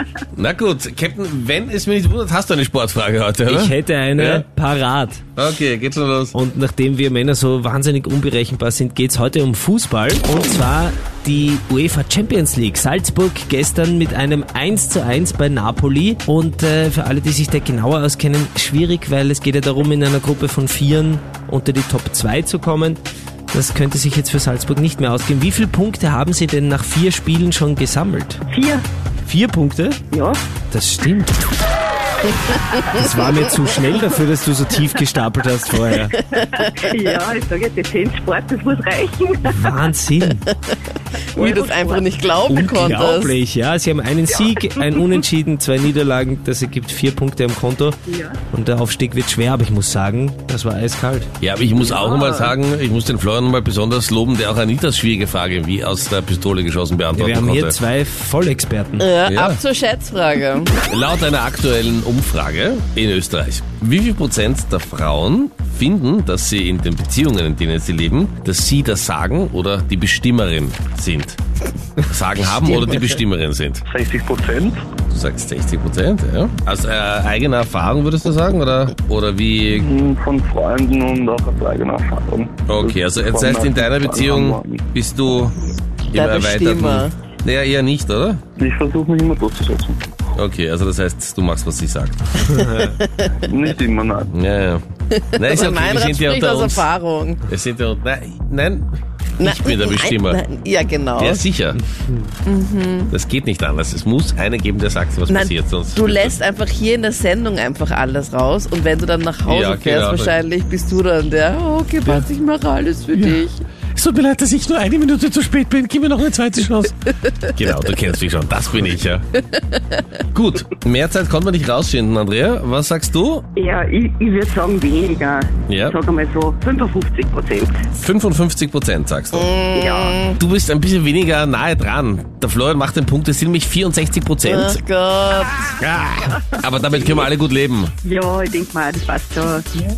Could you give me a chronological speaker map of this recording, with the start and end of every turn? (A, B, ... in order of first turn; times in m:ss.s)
0:00.3-0:04.4 A
0:03.4-0:05.2 B
0:05.4-0:06.3 A
0:06.3-0:28.4 B
0:28.5-0:28.8 C
0:29.2-0:30.0 B
0:30.1-0:30.4 C
0:30.7-0:31.5 B
0:32.3-0:32.8 D
0:32.9-0:36.2 B
0:36.2-0:36.7 D
0:36.4-0:39.7 C
0:39.4-0:40.4 B
0:40.2-0:40.7 D
0:41.3-0:42.3 C
0:41.4-0:43.3 D
0:42.4-0:48.0 B
0:44.8-0:45.1 C
0:48.1-0:48.4 C
0:48.5-0:51.3 B
0:51.4-0:57.8 A
0:51.8-0:52.5 C
0:57.1-0:59.1 B
0:59.0-1:00.8 D
0:59.2-0:59.6 A
1:00.9-1:11.4 A
1:12.0-1:13.8 A
1:13.9-1:14.8 E
1:15.1-1:19.9 A
1:19.7-1:24.8 E
1:22.7-1:25.6 A
1:26.1-1:27.1 D
1:26.1-1:28.4 A
1:28.6-1:30.0 E
1:30.3-1:32.3 A
1:32.5-1:32.9 B
1:32.8-1:33.5 D
1:33.5-1:34.3 E
1:34.3-1:34.8 A
1:35.1-1:37.4 D
1:35.3-1:36.9 A
1:37.5-1:40.4 A
1:39.4-1:41.4 D
1:41.2-1:41.8 A
1:42.4-1:43.1 D
1:43.1-1:46.4 A
1:45.3-1:53.6 D
1:49.4-1:50.4 A
1:53.1-1:59.2 A
2:00.3-2:03.4 A
2:03.6-2:07.8 C
2:05.7-2:06.0 A
2:07.9-2:09.5 A
2:09.3-2:10.4 D
2:09.7-2:10.2 C
2:10.4-2:14.8 A
2:14.4-2:15.7 D
2:15.8-2:17.9 A
2:18.0-2:19.7 C